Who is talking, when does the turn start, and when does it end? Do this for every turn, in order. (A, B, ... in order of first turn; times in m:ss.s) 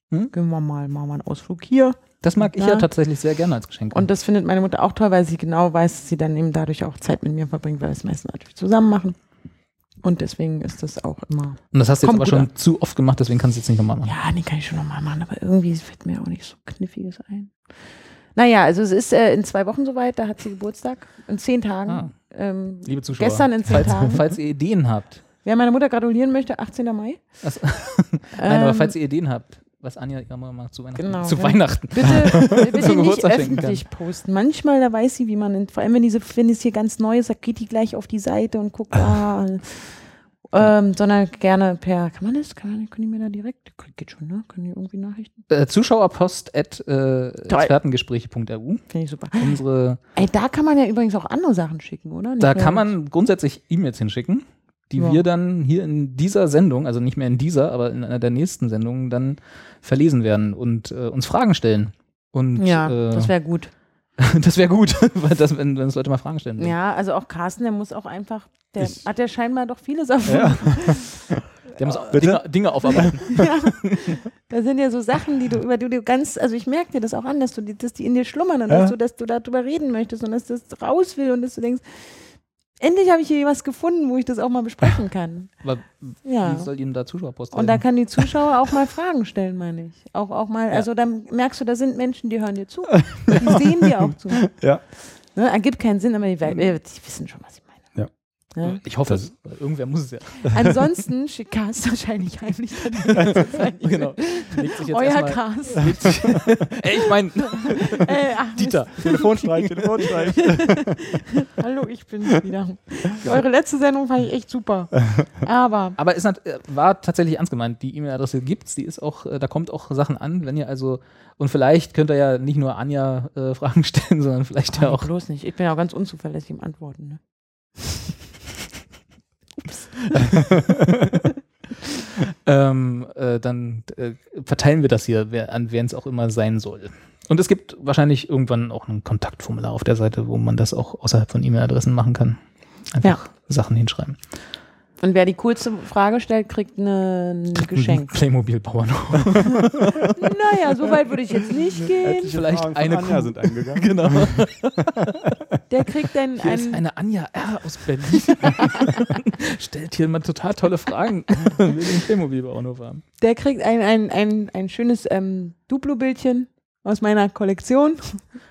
0:00.3-0:02.9 A
0:02.2-0:04.1 B
0:03.9-0:09.2 A
0:10.0-0:12.5 A
0:11.7-0:14.1 B
0:14.0-0:17.6 A
0:18.3-0:24.2 A
0:21.9-0:22.1 B
0:22.8-0:25.2 B
0:25.4-0:27.2 A
0:27.4-0:33.8 B
0:28.3-0:28.9 A
0:31.0-0:45.3 A
0:45.5-0:50.0 B
0:47.5-0:47.7 A
0:48.9-0:49.6 A
0:50.2-0:52.9 A
0:52.4-1:03.3 B
0:55.0-0:55.2 A
1:02.6-1:03.7 A
1:04.2-1:06.7 B
1:06.6-1:12.0 A
1:10.2-1:11.3 C
1:11.8-1:14.0 B
1:12.1-1:13.2 C
1:12.9-1:22.2 A
1:18.7-1:19.0 C
1:22.8-1:25.5 A
1:25.6-1:27.9 B
1:26.2-1:26.7 A
1:27.5-1:34.5 A
1:33.1-1:34.8 C
1:35.3-1:37.7 A
1:38.5-1:38.8 A
1:38.6-1:40.5 B
1:40.5-1:46.4 A
1:43.1-1:50.0 B
1:47.0-1:49.2 A
1:49.0-1:51.2 C
1:50.0-1:56.0 A
1:56.0-2:05.1 B
2:04.7-2:07.2 A
2:12.0-2:22.4 B
2:22.9-2:24.2 B
2:25.0-2:28.1 A
2:27.6-2:30.3 B
2:30.1-2:32.4 A
2:31.9-2:34.4 C
2:32.3-2:35.3 B
2:35.0-2:35.4 C
2:35.7-2:36.8 A
2:36.4-2:43.0 B
2:38.2-2:39.0 A
2:43.2-2:48.2 A